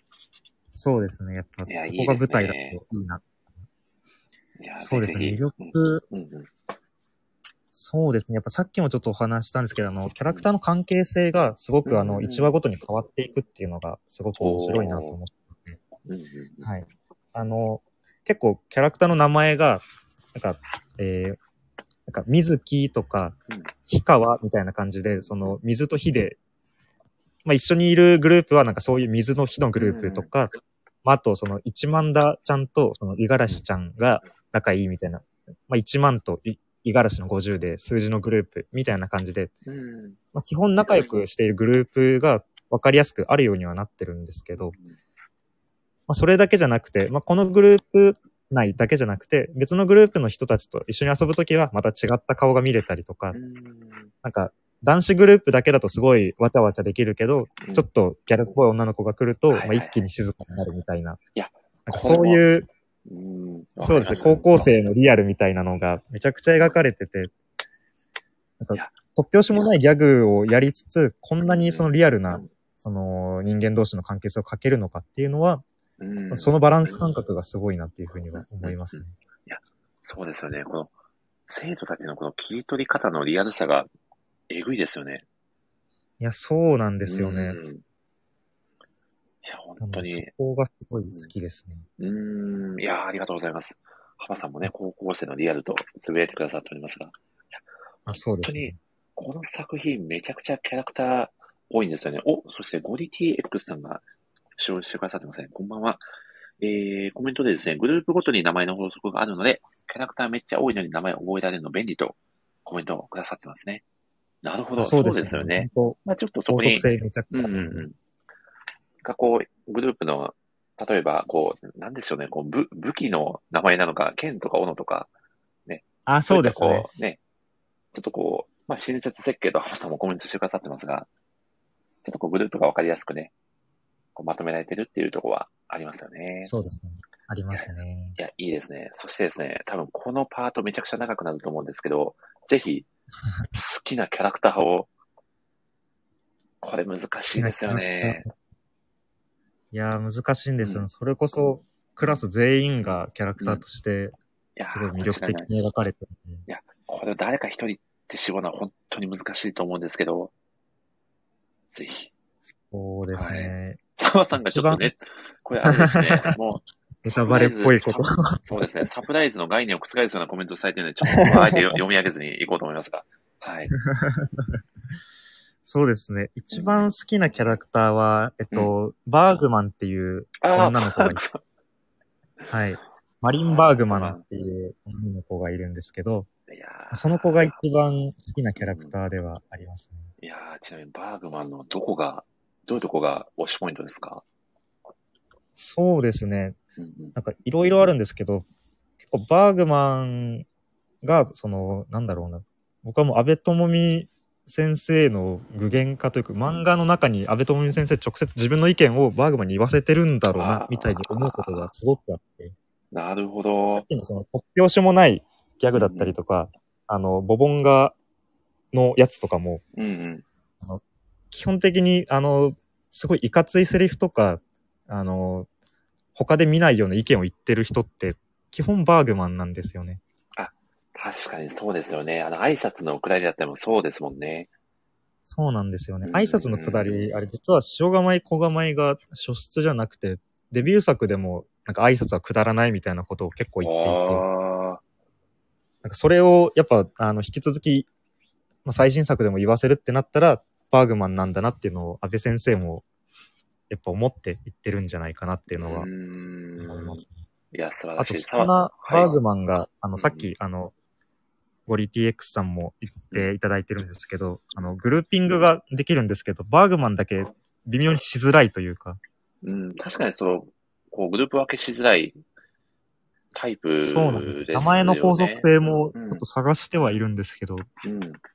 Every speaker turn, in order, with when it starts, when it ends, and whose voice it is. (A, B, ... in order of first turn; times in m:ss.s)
0:00.7-0:03.2 A
0:01.7-0:02.8 B
0:04.6-0:06.5 B
0:04.8-0:06.0 A
0:07.7-0:15.8 A
0:11.8-0:12.6 B
0:14.4-0:15.2 B
0:16.0-0:16.7 B
0:16.6-0:21.4 A
0:22.1-0:23.4 A
0:23.9-0:26.4 A
0:27.4-0:30.5 A
0:29.8-0:30.3 B
0:31.0-0:39.5 A
0:39.6-0:40.2 B
0:40.3-0:44.8 A
0:46.1-0:53.4 A
0:53.3-0:54.1 B
0:54.2-1:01.2 A
0:59.5-1:00.0 B
1:01.4-1:02.4 B
1:01.9-1:02.7 A
1:03.1-1:04.7 B
1:03.8-1:07.3 A
1:08.6-1:15.6 A
1:11.5-1:12.5 B
1:16.0-1:17.0 B
1:16.3-1:19.1 A
1:18.3-1:20.9 B
1:21.5-1:23.9 B
1:24.5-1:25.2 B
1:26.2-1:27.6 A
1:27.1-1:27.8 B
1:29.4-1:30.3 B
1:29.8-1:31.9 A
1:32.0-1:44.0 B
1:38.1-1:38.8 A
1:44.6-1:46.0 B
1:46.6-1:53.8 B
1:54.4-1:58.0 B
1:54.8-1:57.9 A
1:59.0-2:05.1 B
2:05.7-2:07.2 B
2:06.1-2:06.9 A
2:07.9-2:11.1 B
2:12.0-2:13.3 B
2:14.2-2:16.5 B
2:16.4-2:18.2 A
2:17.5-2:22.9 B
2:23.5-2:24.9 B
2:26.6-2:28.2 B
2:27.2-2:28.3 A
2:29.7-2:34.2 A
2:30.6-2:30.9 B
2:33.4-2:33.6 B
2:34.6-2:35.5 B
2:34.7-2:36.5 A
2:36.5-2:40.3 B
2:41.7-2:42.1 B
2:42.5-2:43.8 A
2:43.1-2:53.7 B
2:44.3-2:44.9 A
2:45.6-2:46.3 A
2:47.0-2:48.4 A
2:51.4-2:51.6 A
2:53.8-2:54.6 A
2:55.6-3:01.2 A
2:56.5-2:56.9 B
3:00.4-3:01.4 B
3:02.5-3:06.3 A
3:03.5-3:04.2 B
3:06.5-3:07.6 B
3:06.9-3:10.1 A
3:08.6-3:09.0 B
3:10.2-3:14.2 B
3:15.6-3:16.6 A
3:16.8-3:17.2 B
3:17.2-3:18.4 A
3:19.0-3:20.5 A
3:21.0-3:32.6 A
3:30.3-3:31.7 B
3:32.9-3:33.9 B
3:33.7-3:38.0 A
3:35.7-3:36.2 B
3:38.7-3:39.6 A
3:39.8-3:40.2 B
3:40.6-3:45.5 A
3:46.2-3:50.0 A
3:50.4-3:54.5 B
3:55.3-4:04.2 A
3:56.0-3:57.1 B
4:03.6-4:04.8 B
4:05.8-4:07.9 A
4:08.6-4:12.8 A
4:13.7-4:15.9 A
4:15.5-4:19.2 B
4:16.6-4:17.1 A
4:18.0-4:20.7 A
4:20.0-4:20.3 B
4:21.7-4:29.0 A
4:29.4-4:32.2 B
4:33.3-4:36.2 B
4:33.8-4:37.7 A
4:37.8-4:38.2 B